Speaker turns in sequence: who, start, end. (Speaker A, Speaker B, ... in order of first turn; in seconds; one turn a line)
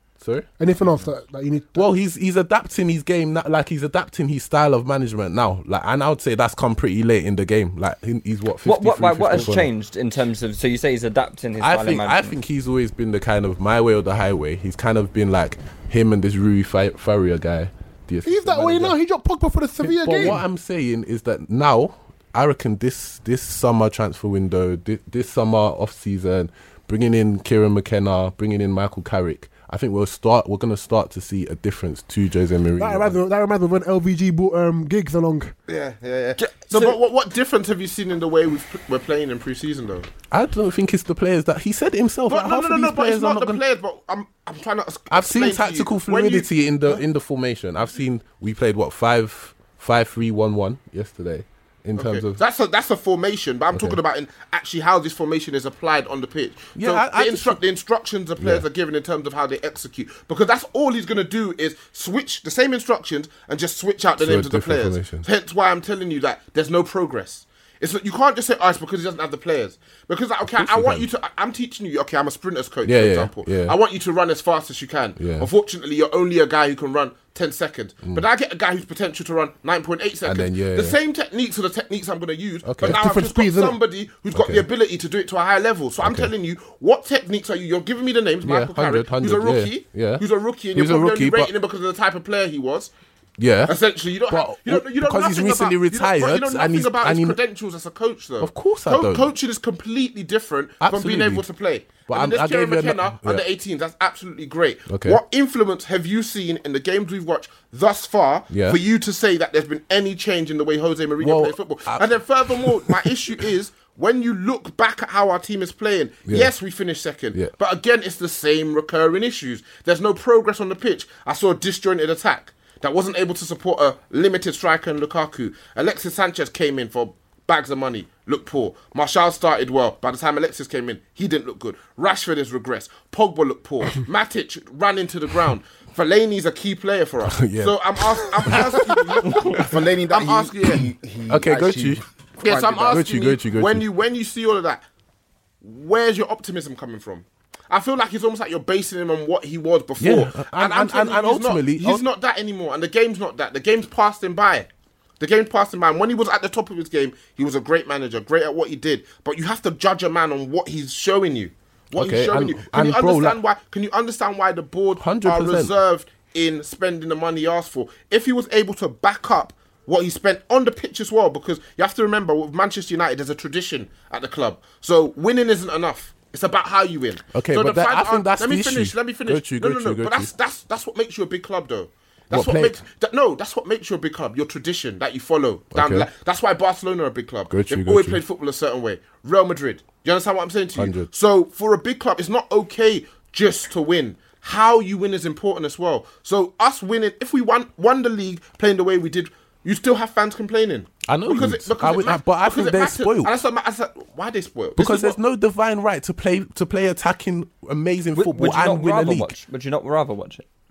Speaker A: 0.2-0.5
Speaker B: 0.6-1.9
Speaker A: 1.7-9.7
Speaker C: 8.6-12.3
Speaker A: 11.6-19.0
Speaker B: 18.2-20.4
Speaker A: 19.8-33.2
Speaker B: 32.8-35.5
Speaker D: 35.7-40.1
Speaker C: 36.4-36.8
Speaker A: 40.3-43.6
Speaker D: 42.3-47.0
Speaker A: 45.1-52.4
Speaker D: 52.0-92.9
Speaker A: 53.7-54.0
Speaker A: 56.7-57.6
Speaker A: 58.4-58.6
Speaker A: 64.2-65.3
Speaker A: 70.4-71.1
Speaker A: 72.8-73.8
Speaker A: 75.2-75.5
Speaker A: 80.2-81.0
Speaker A: 82.6-83.0
Speaker B: 82.8-83.8
Speaker A: 84.3-84.7
Speaker A: 86.0-86.3
Speaker A: 88.4-91.5
Speaker A: 93.4-93.7
Speaker D: 93.7-140.8
Speaker A: 94.3-97.4
Speaker A: 98.4-99.3
Speaker A: 100.8-101.4
Speaker A: 102.1-103.4
Speaker A: 104.9-105.2
Speaker A: 108.5-108.8
Speaker A: 111.2-113.0
Speaker A: 137.3-139.7
Speaker E: 139.5-143.0
Speaker A: 141.3-142.0
Speaker D: 142.4-144.8
Speaker A: 142.9-143.8
Speaker D: 145.6-154.7
Speaker A: 150.0-152.0
Speaker D: 155.2-205.2
Speaker A: 161.9-163.4
Speaker A: 165.0-165.7
Speaker A: 177.3-180.3
Speaker A: 182.3-182.8
Speaker A: 185.7-186.1
Speaker A: 187.5-188.2
Speaker A: 190.8-191.1
Speaker A: 201.1-203.3
Speaker A: 204.8-209.3
Speaker C: 208.1-210.4